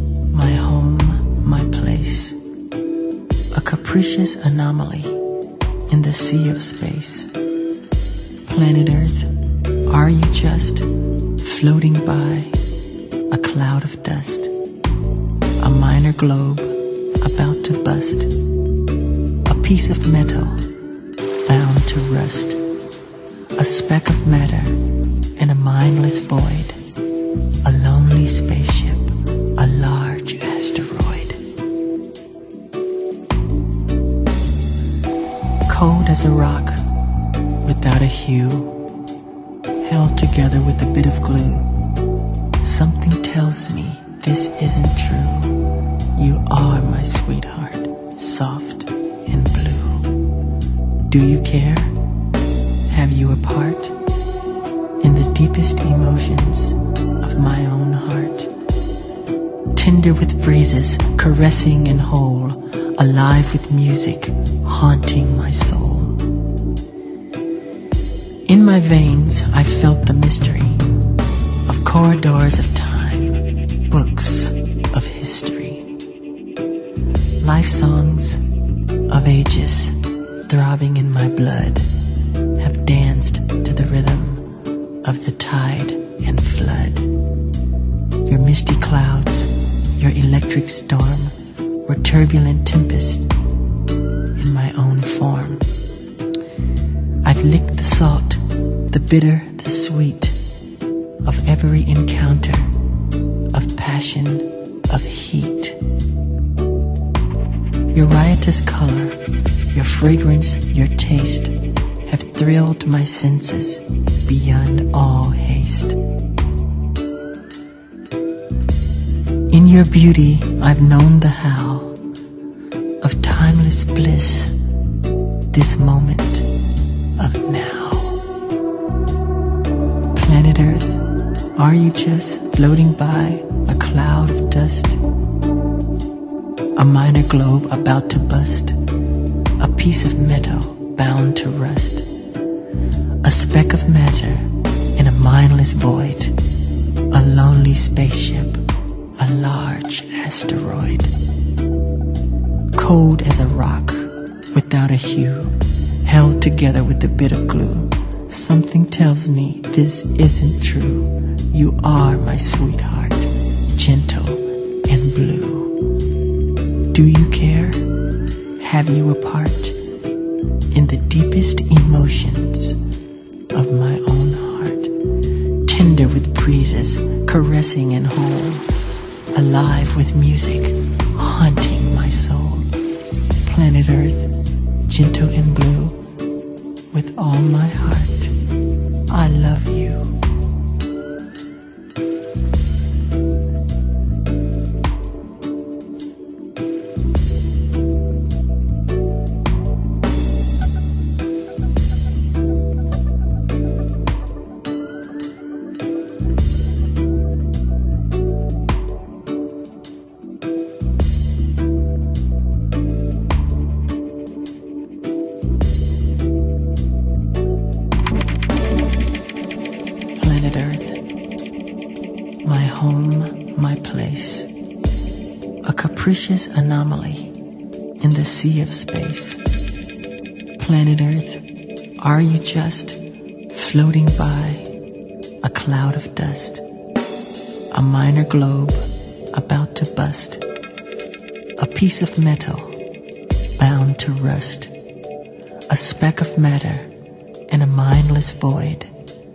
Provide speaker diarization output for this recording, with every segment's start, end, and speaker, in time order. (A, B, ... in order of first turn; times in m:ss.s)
0:00.3-0:02.4 A
0:03.5-0:05.2 A
0:05.9-0:07.3 A
0:08.4-0:09.3 A
0:09.9-0:12.6 A
0:13.3-0:14.5 A
0:15.6-0:18.4 A
0:19.4-0:20.6 A
0:21.4-0:22.6 A
0:23.6-0:24.8 A
0:25.4-0:26.8 A
0:27.6-0:31.4 A
0:35.6-0:36.8 A
0:37.6-0:38.8 A
0:39.8-0:41.7 A
0:42.6-0:50.1 A
0:51.0-0:52.0 A
0:52.8-0:54.0 A
0:55.0-0:58.5 A
0:59.7-1:06.2 A
1:08.4-1:10.8 A
1:11.6-1:15.9 A
1:17.4-1:18.5 A
1:19.1-1:21.9 A
1:22.6-1:24.5 A
1:25.0-1:27.1 A
1:28.2-1:33.3 A
1:34.4-1:35.6 A
1:37.2-1:40.4 A
1:41.2-1:42.7 A
1:43.5-1:45.8 A
1:47.9-1:49.2 A
1:49.7-1:56.0 A
1:59.5-2:02.0 A
2:03.0-2:04.6 A
2:05.5-2:06.5 A
2:07.2-2:08.2 A
2:10.1-2:15.0 A
2:16.7-2:18.8 A
2:19.6-2:22.1 A
2:23.2-2:26.4 A
2:27.1-2:28.6 A
2:29.2-2:31.1 A
2:32.7-2:45.8 A
2:46.9-2:47.9 A
2:48.6-2:49.8 A
2:50.7-2:52.8 A
2:53.5-2:54.9 A
2:55.6-2:58.7 A
2:59.3-3:02.7 A
3:03.4-3:04.3 A
3:04.9-3:06.0 A
3:06.9-3:08.3 A
3:09.1-3:10.2 A
3:40.1-3:41.0 A
3:42.4-3:44.5 A
3:45.6-3:47.3 A
3:48.0-3:49.4 A
3:50.6-3:51.4 A
3:52.0-3:54.7 A
3:55.4-3:56.6 A
3:57.7-4:00.4 A
4:01.6-4:02.8 A
4:03.6-4:04.7 A
4:05.7-4:06.9 A
4:07.5-4:08.9 A